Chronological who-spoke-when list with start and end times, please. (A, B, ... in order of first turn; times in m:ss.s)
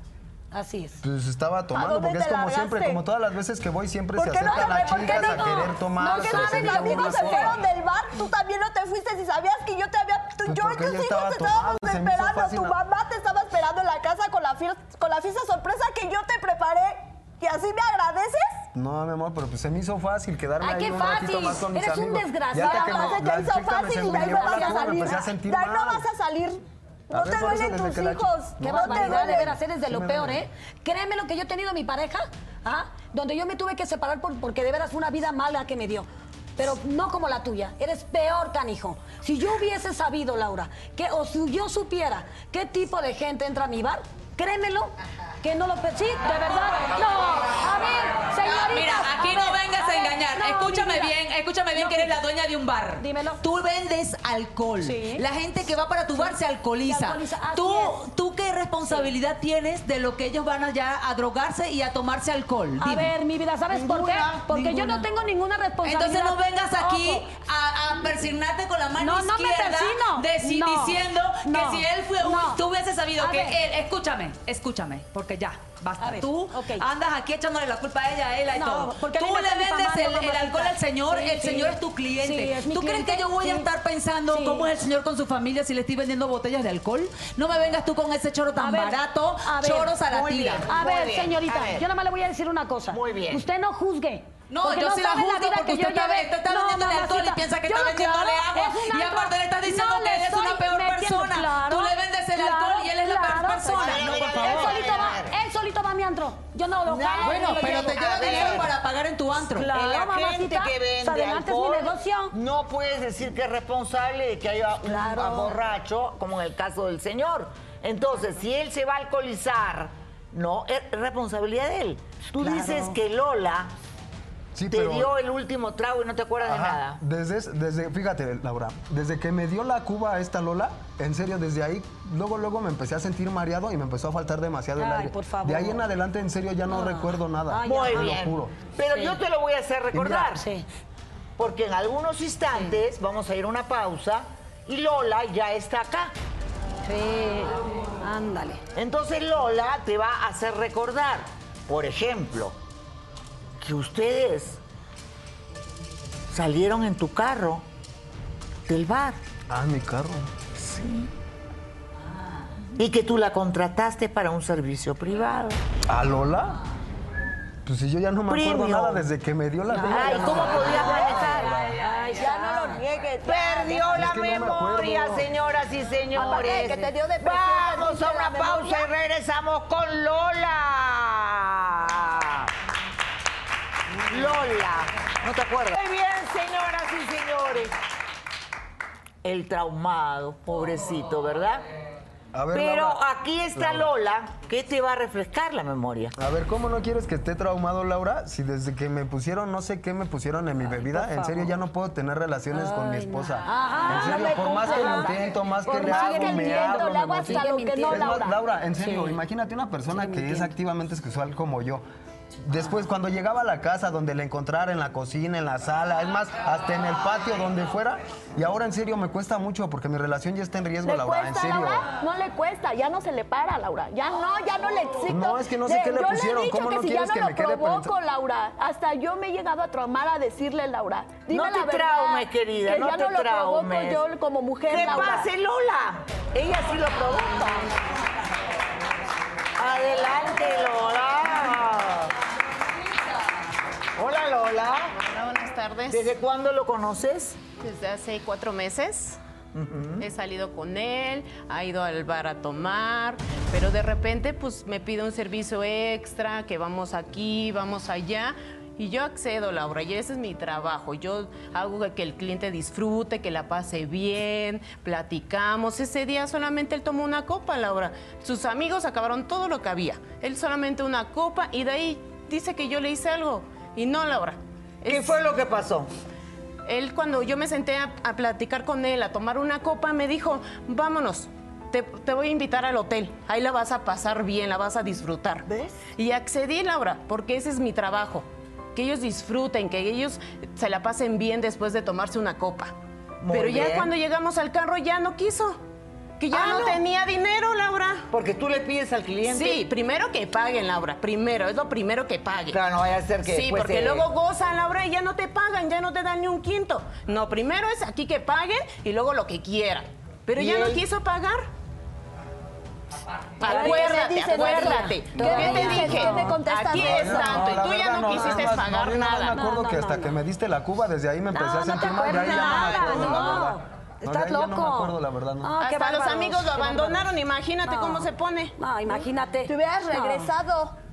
0:00.5-0:01.0 A
0:01.0-0:07.7 B
0:01.7-0:03.0 C
0:04.2-0:18.5 C
0:04.4-0:07.5 A
0:10.4-0:12.8 B
0:18.8-0:26.1 B
0:20.6-0:23.2 A
0:22.6-0:29.6 C
0:24.0-0:25.2 A
0:27.1-0:30.5 B
0:28.6-0:51.1 A
0:48.4-1:03.1 D
0:51.7-0:52.2 A
0:53.0-0:53.4 A
0:54.8-0:55.2 A
0:56.2-0:58.0 A
1:02.8-1:07.3 A
1:03.7-1:05.1 D
1:05.8-1:30.7 D
1:09.0-1:12.6 A
1:13.2-1:13.6 A
1:16.0-1:16.9 A
1:18.5-1:23.7 A
1:24.3-1:24.7 A
1:28.6-1:30.0 A
1:30.1-1:31.9 E
1:30.6-1:48.7 A
1:32.9-1:33.5 E
1:34.5-1:45.1 D
1:43.7-1:45.4 E
1:46.9-1:48.7 E
1:47.2-1:49.7 D
1:49.5-1:52.4 A
1:49.6-2:03.7 E
1:54.9-1:55.6 A
2:02.4-2:03.0 A
2:04.6-2:05.1 B
2:04.7-2:07.0 E
2:06.4-2:18.5 B
2:14.8-2:15.8 A
2:16.7-2:18.2 A
2:17.6-2:20.4 E
2:19.9-2:20.3 B
2:20.1-2:20.7 A
2:21.4-2:26.1 E
2:26.8-2:28.6 A
2:28.8-2:32.6 E
2:33.6-2:34.6 E
2:36.3-2:37.6 E
2:38.7-2:39.2 E
2:39.5-2:40.3 B
2:40.6-2:41.1 E
2:42.8-2:45.6 E
2:45.9-2:46.6 B
2:47.6-2:51.7 B
2:48.3-2:49.1 E
2:49.7-2:52.8 A
2:49.9-2:51.6 E
2:50.0-2:51.6 C
2:52.1-2:54.1 C
2:53.2-3:02.5 E
2:53.9-2:55.3 B
2:56.1-2:58.9 C
3:04.1-3:07.8 E
3:09.2-3:11.6 E
3:12.3-3:13.0 B
3:12.5-3:16.1 E
3:13.6-3:13.9 B
3:16.2-3:31.8 B
3:20.8-3:21.5 A
3:22.5-3:29.2 A
3:23.9-3:28.4 C
3:29.9-3:30.5 A
3:32.5-3:41.9 B
3:40.8-3:55.3 C
3:45.1-3:47.9 B
3:51.3-3:54.0 E
3:54.7-3:57.7 E
3:59.6-4:02.1 E
4:04.0-4:05.0 E
4:05.0-4:06.1 F
4:05.9-4:07.4 E
4:07.6-4:09.2 F
4:09.5-4:10.1 E
4:10.0-4:35.1 F
4:34.8-4:35.9 E
4:36.7-4:52.7 F
4:53.2-4:53.9 E
4:53.3-4:55.6 F
4:56.2-4:58.0 F
4:56.3-4:56.8 E
4:58.1-4:59.7 E
4:59.3-5:02.6 F
5:02.5-5:04.1 E
5:03.3-5:11.5 F
5:10.4-5:10.8 E
5:13.4-5:19.4 F
5:13.4-5:16.4 A
5:13.4-5:17.6 C
5:15.3-5:16.1 B
5:16.7-5:25.6 B
5:18.2-5:18.4 A
5:19.3-5:20.1 A
5:21.3-5:27.1 A
5:22.1-5:23.1 F
5:25.6-5:28.5 F
5:27.6-5:30.3 A
5:28.9-5:30.8 C